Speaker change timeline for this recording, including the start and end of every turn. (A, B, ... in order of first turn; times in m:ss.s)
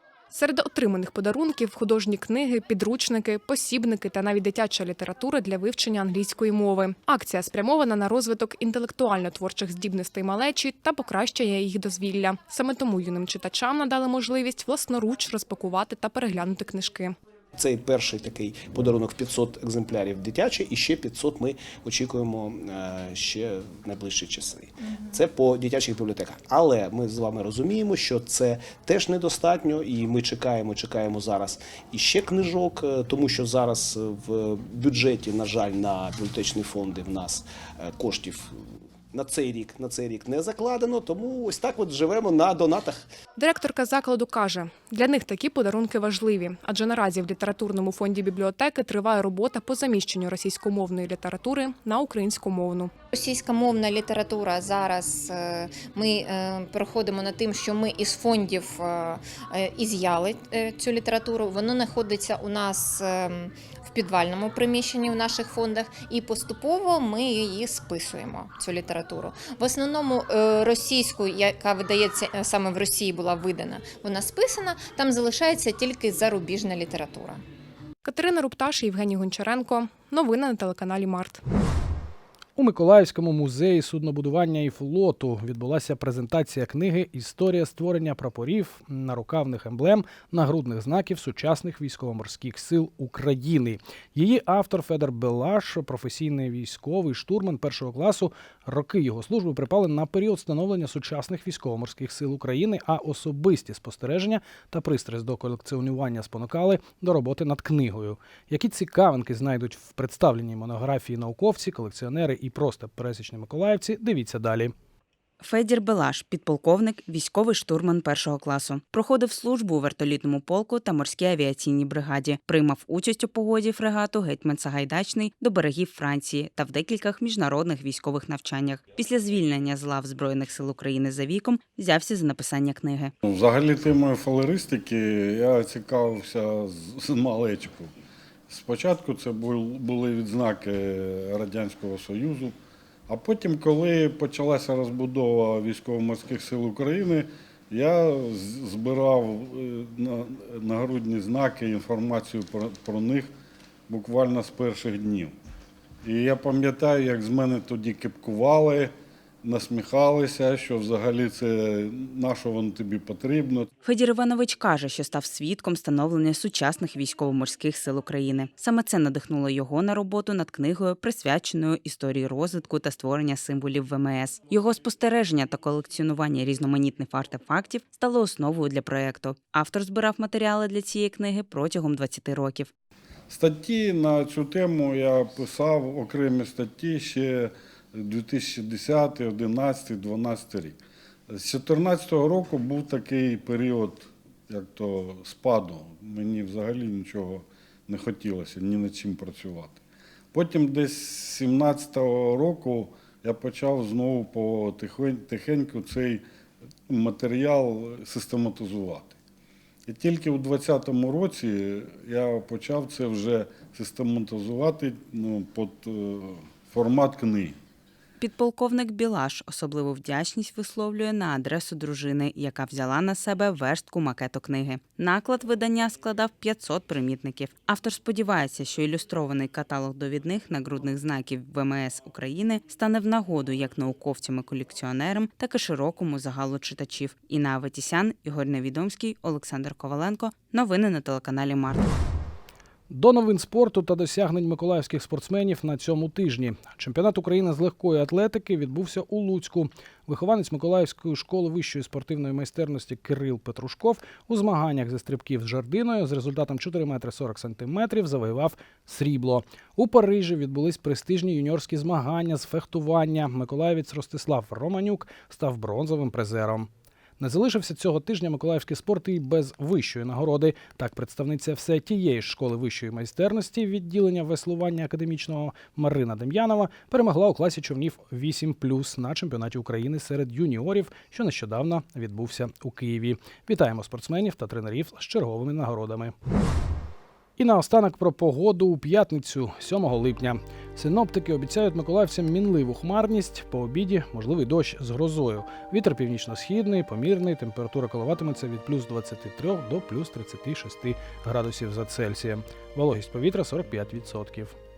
0:00.4-0:17.1 A
0:17.6-0:38.6 B
0:39.1-0:43.0 B
0:43.4-0:52.9 A
0:53.1-1:17.4 C
1:18.0-1:21.4 A
1:22.6-1:54.7 D
1:55.4-2:13.1 E
2:13.2-2:17.9 F
2:18.5-2:22.6 F
2:23.1-2:33.3 F
2:33.9-2:35.3 F
2:36.0-2:38.9 F
2:39.4-2:43.7 F
2:43.8-3:02.7 E
3:03.3-3:10.8 F
3:11.3-3:19.8 F
3:20.3-3:26.2 F
3:26.9-3:29.2 F
3:29.9-3:37.5 F
3:38.2-4:01.9 E
4:02.9-4:26.7 D
4:27.2-4:46.1 D
4:47.4-5:04.5 D